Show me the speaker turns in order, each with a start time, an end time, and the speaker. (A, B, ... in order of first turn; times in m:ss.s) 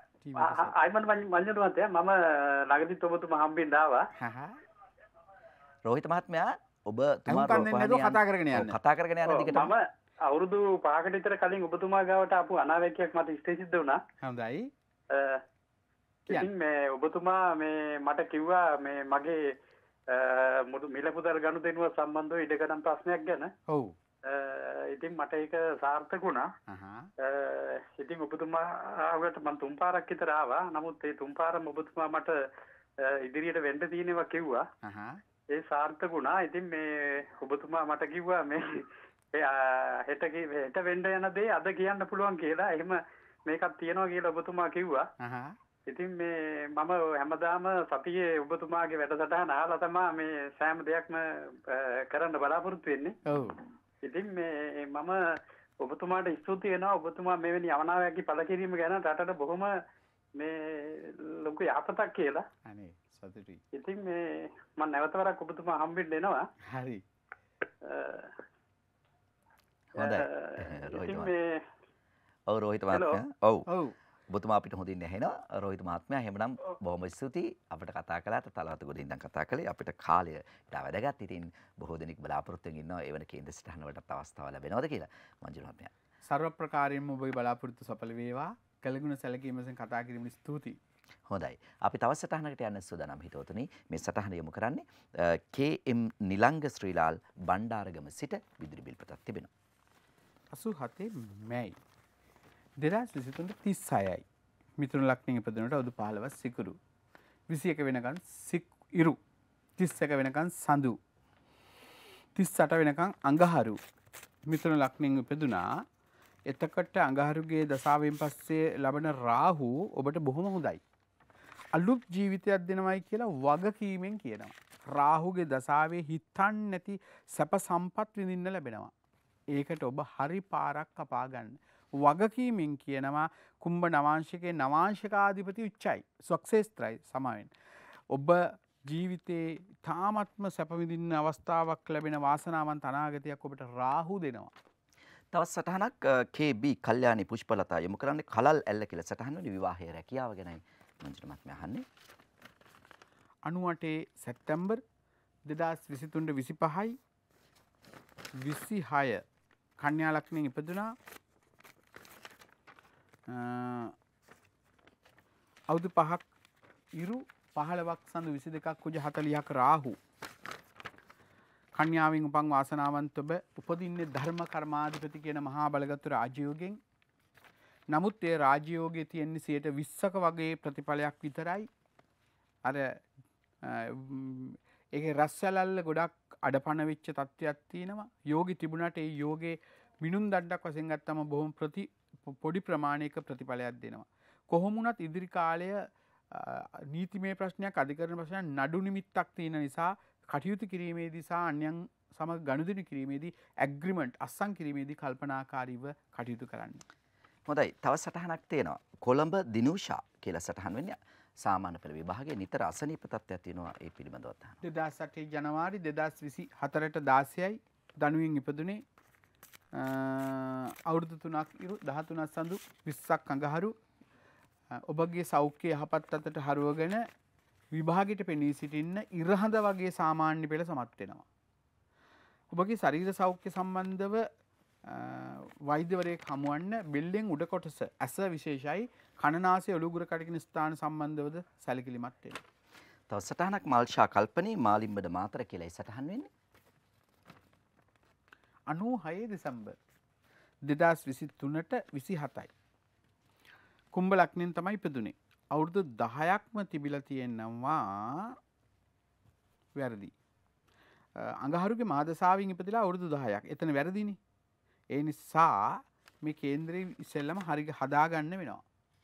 0:00.2-0:00.8 A
0:00.4-0:04.1 B
0:04.2-0:04.6 A
0:05.8-0:09.7 C
0:07.3-0:08.8 A
0:09.3-0:14.0 B
0:14.2-0:14.7 A
0:15.1-0:15.4 B
0:16.3-0:19.6 B
0:20.1-0:23.5 B
0:23.7-0:24.0 A
0:24.2-0:26.5 B
0:26.7-0:27.1 A
0:27.2-0:32.4 B
0:33.0-0:34.6 B
0:34.8-0:35.2 A
0:35.5-0:45.1 B
0:45.2-0:45.6 A
0:45.8-0:53.2 B
0:53.2-0:53.6 A
0:54.0-0:59.8 B
1:00.3-1:02.4 B
1:02.6-1:03.6 A
1:03.7-1:06.5 B
1:06.6-1:07.0 A
1:07.8-1:08.4 B
1:09.9-1:11.3 C
1:10.0-1:11.6 B
1:12.5-1:13.7 C
1:12.9-1:13.2 B
1:13.7-1:14.0 A
1:14.3-1:25.9 C
1:26.2-1:30.8 A
1:31.3-1:39.5 C
1:40.5-1:41.8 A
1:42.8-1:44.2 A
1:44.8-1:46.8 A
1:47.5-1:49.2 A
1:49.8-1:51.0 A
1:52.3-1:53.8 A
1:54.5-1:55.7 A
1:56.5-2:00.8 A
2:01.7-2:08.9 A
2:09.5-2:17.5 A
2:18.1-2:24.5 A
2:25.3-2:31.8 C
2:33.4-2:34.8 A
2:35.4-2:37.0 A
2:38.4-2:39.2 A
2:39.8-2:41.0 A
2:43.3-2:44.0 A
2:45.7-2:46.3 A
2:46.9-2:50.0 A
2:51.7-2:56.8 A
2:57.9-3:01.7 A
3:02.6-3:03.0 A
3:03.6-3:26.8 A
3:27.5-3:34.6 C
3:34.6-3:38.8 A
3:39.7-3:43.7 A
3:44.7-3:47.0 A
3:47.7-3:51.2 A
3:52.5-3:54.3 A
3:54.8-4:02.4 A
4:03.1-4:06.3 C
4:08.7-4:09.8 A
4:10.6-4:12.5 A
4:13.9-4:18.4 A
4:19.8-4:20.1 A
4:21.2-4:24.2 A
4:24.9-4:28.6 A